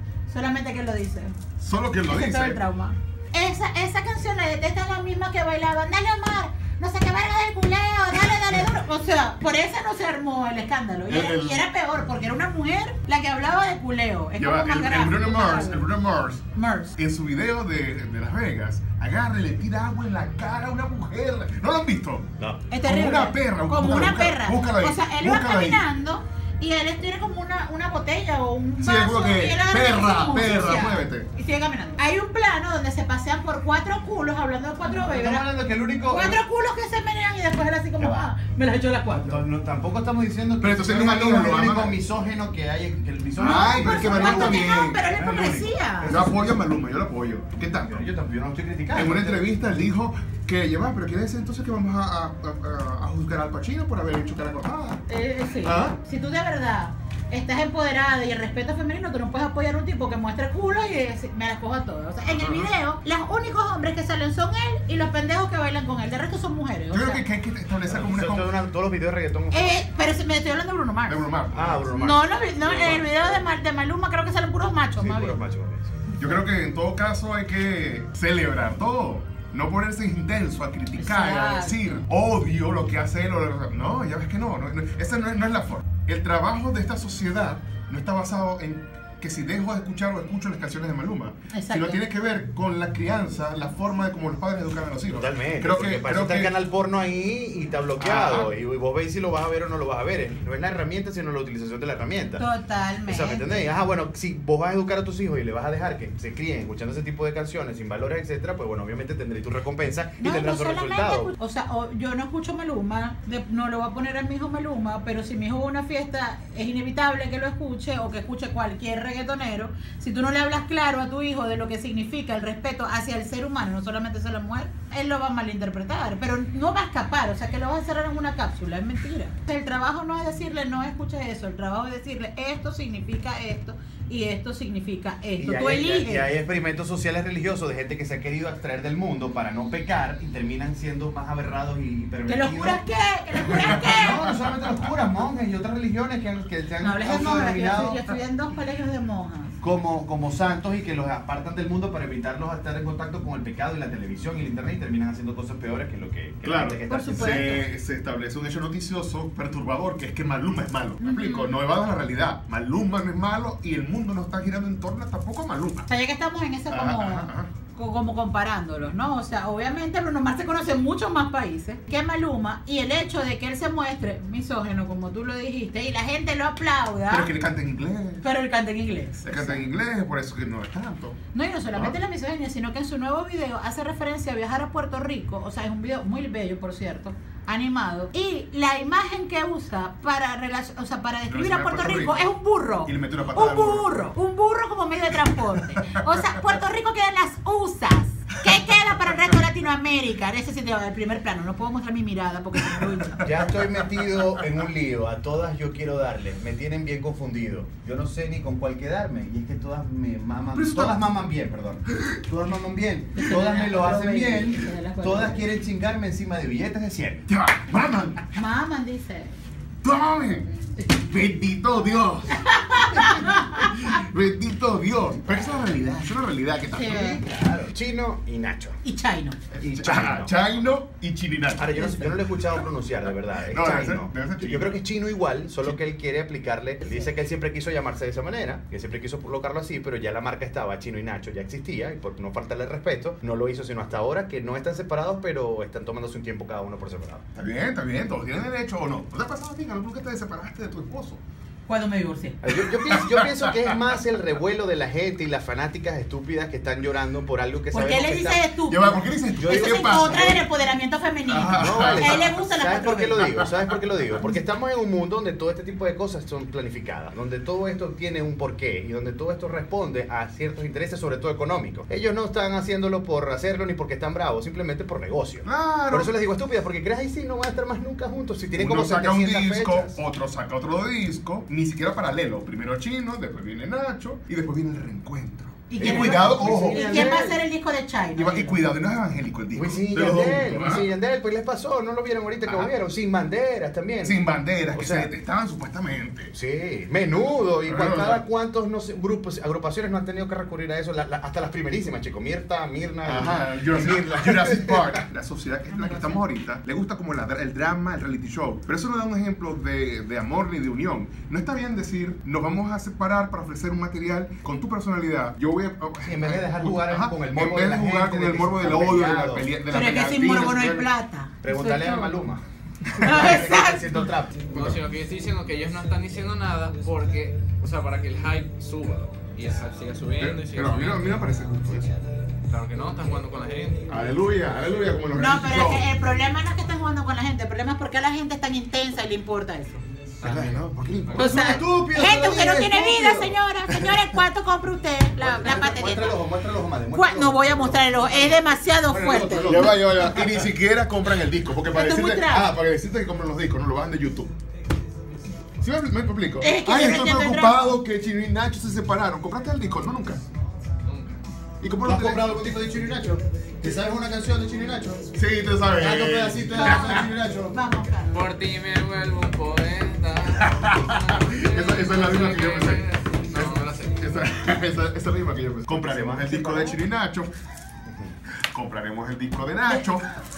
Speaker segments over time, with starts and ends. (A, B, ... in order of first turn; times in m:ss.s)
0:00.3-0:01.3 A
0:01.6-0:02.6 B
0:02.0-0:15.9 A
0:11.1-0:11.6 B
0:14.4-0:16.4 B
0:16.5-0:17.0 A
0:17.0-0:25.8 B
0:22.4-0:22.6 C
0:22.7-0:35.5 A
0:28.8-0:31.3 B
0:34.9-0:36.4 C
0:36.1-0:39.4 A
0:38.0-0:38.3 C
0:39.2-0:46.6 C
0:40.6-0:42.0 B
0:43.4-0:45.0 B
0:43.4-0:46.2 A
0:46.1-0:48.0 B
0:47.7-0:49.4 C
0:48.9-0:55.0 B
0:55.1-1:07.2 A
0:55.6-0:56.0 B
1:02.3-1:02.7 B
1:06.9-1:08.5 B
1:07.9-1:09.8 C
1:09.5-1:11.3 A
1:11.1-1:11.9 B
1:11.5-1:13.1 C
1:12.0-1:15.4 A
1:15.0-1:16.0 C
1:16.2-1:36.5 B
1:20.9-1:22.0 A
1:31.5-1:32.0 A
1:35.1-1:42.4 C
1:38.0-1:38.5 B
1:42.4-1:43.6 A
1:43.0-1:51.3 C
1:50.2-2:16.3 A
2:15.4-2:22.8 C
2:22.2-2:24.3 A
2:23.4-2:28.0 C
2:26.8-2:29.5 A
2:29.6-2:37.6 C
2:36.4-2:45.9 B
2:36.9-2:37.6 A
2:41.0-2:41.5 A
2:45.9-2:57.3 A
2:46.7-2:47.5 B
2:57.1-2:58.2 B
2:58.2-2:59.6 A
2:59.2-3:01.2 B
3:01.3-3:23.2 A
3:11.3-3:12.2 B
3:12.8-3:13.9 B
3:15.8-3:16.2 B
3:23.2-3:37.2 C
3:24.1-3:24.4 B
3:30.5-3:30.9 B
3:33.2-3:35.4 A
3:37.3-3:38.3 B
3:38.3-3:39.3 A
3:39.8-3:47.0 B
3:42.3-3:43.6 A
3:46.7-3:47.2 A
3:46.8-3:48.8 C
3:48.8-3:49.4 A
3:49.5-3:52.1 B
3:49.6-3:50.3 C
3:51.6-4:07.2 C
3:53.5-3:54.8 B
4:07.4-4:11.2 B
4:11.6-4:12.4 A
4:12.4-4:18.4 C
4:12.9-4:13.7 B
4:17.7-4:23.3 A
4:18.7-4:20.4 B
4:19.4-4:20.4 C
4:21.3-4:22.3 B
4:21.5-4:40.0 C
4:35.4-4:36.1 B
4:38.5-4:47.1 B
4:45.7-4:48.6 A
4:45.8-4:47.4 C
4:48.1-4:50.9 B
4:49.5-4:54.2 C
4:54.0-4:56.3 B
4:54.7-4:55.1 C
4:56.3-5:05.0 C
4:57.6-4:58.2 B
5:03.0-5:20.9 B
5:05.7-5:06.2 A
5:16.0-5:19.5 C
5:19.7-5:22.2 A
5:21.4-5:22.4 C
5:22.9-5:23.3 B
5:23.0-5:24.1 A
5:23.0-5:24.4 C
5:24.5-5:31.2 D
5:24.5-5:24.8 B
5:30.2-5:32.0 B
5:32.5-5:34.0 D
5:33.9-5:35.8 B
5:35.1-5:39.8 A
5:40.2-5:40.6 D
5:40.2-5:41.6 B
5:41.1-5:43.4 C
5:41.2-5:46.2 A
5:45.2-5:48.4 C
5:46.9-5:49.8 A
5:48.9-5:49.7 C
5:49.1-5:54.3 B
5:51.7-5:52.5 A
5:55.6-6:00.2 B
5:56.4-5:57.8 A
6:00.8-6:01.2 D
6:01.6-6:02.3 B
6:01.8-6:05.1 C
6:05.1-6:07.0 B
6:05.8-6:07.6 C
6:06.6-6:07.0 D
6:07.5-6:08.2 A
6:08.1-6:14.4 D
6:10.4-6:12.8 B
6:14.0-6:17.3 B
6:15.7-6:16.8 C
6:17.8-6:18.2 C
6:18.3-6:20.2 B